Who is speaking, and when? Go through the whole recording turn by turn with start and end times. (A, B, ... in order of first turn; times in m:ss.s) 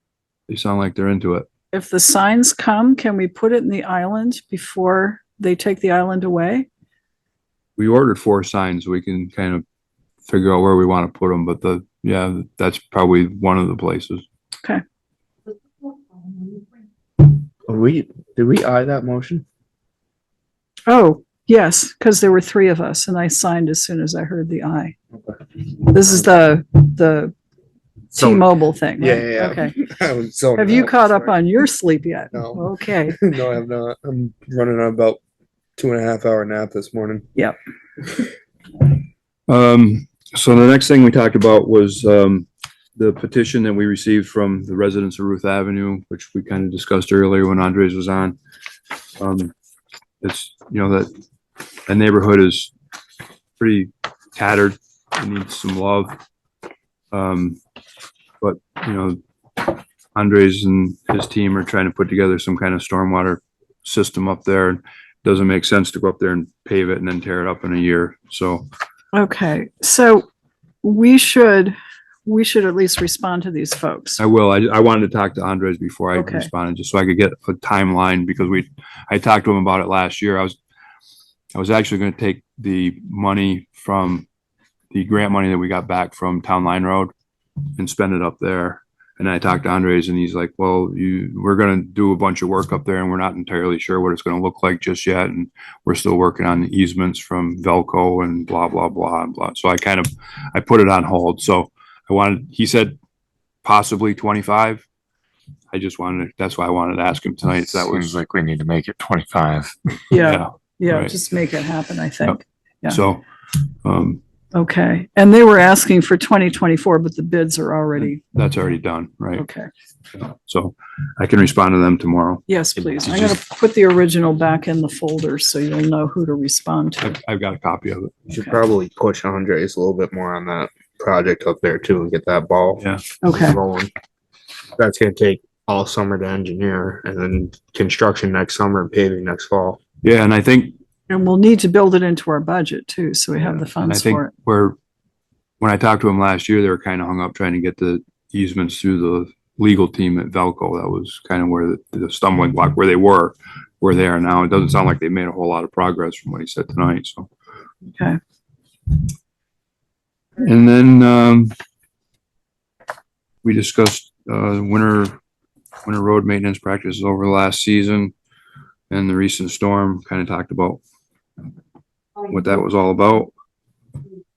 0:00.5-0:01.5 A
0:01.7-0:06.7 B
0:07.8-0:09.6 A
0:10.2-0:14.2 A
0:17.6-0:19.4 C
0:20.9-0:24.9 B
0:25.8-0:27.3 B
0:28.1-0:29.7 B
0:28.2-0:28.4 C
0:29.0-0:31.4 C
0:30.6-0:33.2 B
0:32.3-0:35.2 C
0:35.8-0:37.3 C
0:39.5-0:48.4 A
0:49.2-0:49.5 A
0:50.2-0:51.1 A
0:51.9-0:52.7 A
0:53.6-0:56.2 A
0:57.1-0:57.6 A
0:58.4-1:08.7 A
1:09.1-1:10.2 B
1:10.8-1:11.7 B
1:12.2-1:14.2 B
1:14.2-1:20.5 A
1:16.1-1:16.5 B
1:21.5-1:24.2 A
1:24.9-1:27.1 A
1:27.8-1:43.0 A
1:43.6-1:44.8 A
1:45.7-1:48.2 A
1:47.7-1:50.0 D
1:50.1-1:53.0 B
1:50.1-1:51.1 A
1:52.2-1:53.2 A
1:53.8-1:54.2 A
1:54.5-1:58.2 B
1:58.0-1:59.4 A
1:59.3-1:59.7 B
2:00.1-2:02.4 A
2:02.5-2:07.1 B
2:02.8-2:03.3 D
2:07.0-2:08.2 A
2:08.3-2:13.9 C
2:13.2-2:13.6 B
2:14.8-2:19.8 C
2:20.0-2:20.7 A
2:21.1-2:24.3 B
2:23.8-2:24.8 A
2:25.6-2:37.3 A
2:37.9-2:38.2 B
2:40.4-2:41.5 A
2:43.4-2:45.2 A
2:45.8-2:48.1 A
2:48.9-2:50.8 A
2:52.3-2:53.3 A